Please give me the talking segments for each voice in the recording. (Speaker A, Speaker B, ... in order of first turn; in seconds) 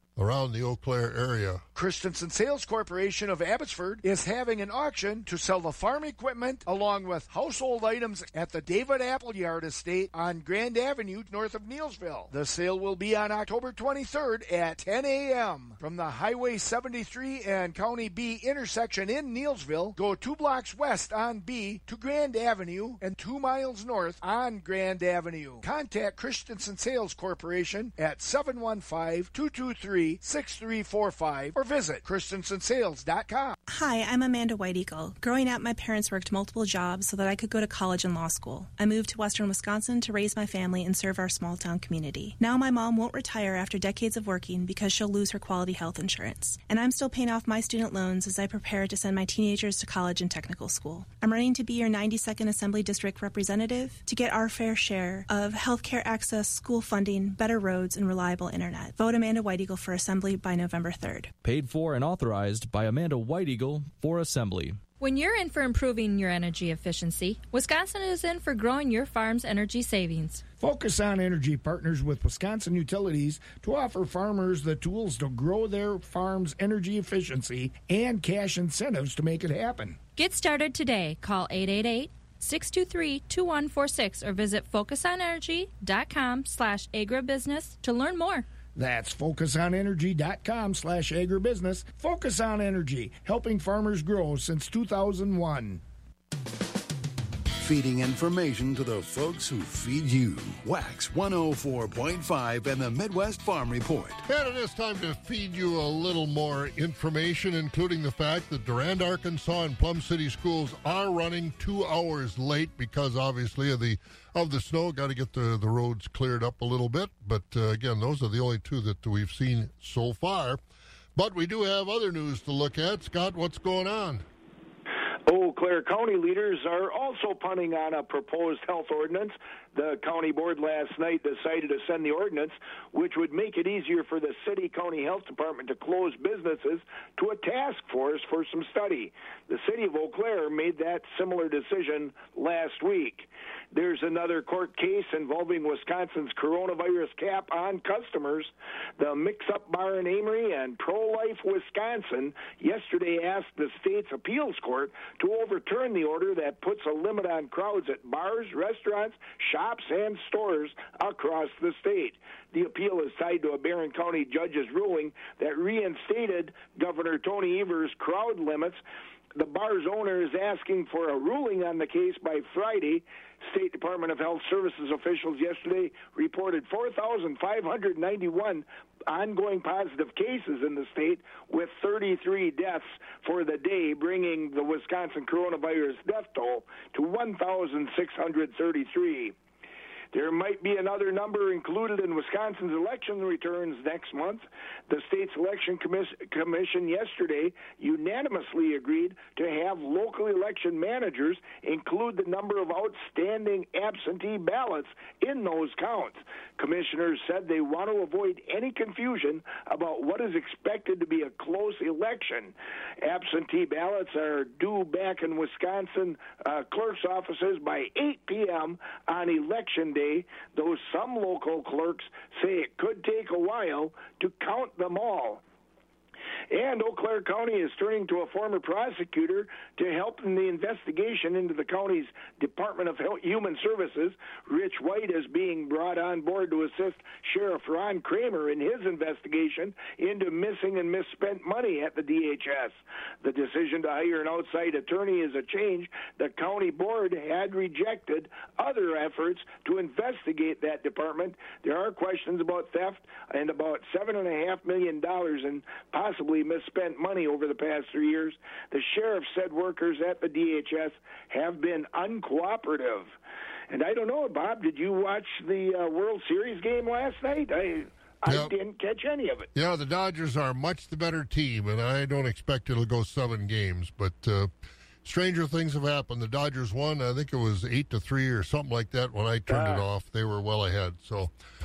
Speaker A: 0.2-1.6, 104.3-120.6, 121.2-124.2, 268.3-268.5, 269.5-274.5, 275.1-281.3
Speaker B: 1.7-33.5, 70.6-80.0, 88.8-95.8
Speaker C: 33.7-61.3
Speaker D: 61.4-64.8
Speaker E: 65.0-70.4, 80.2-88.5
Speaker F: 97.6-104.2
Speaker G: 125.3-168.8, 169.3-189.4, 190.1-225.4, 226.5-263.1, 263.7-269.5, 279.5-279.8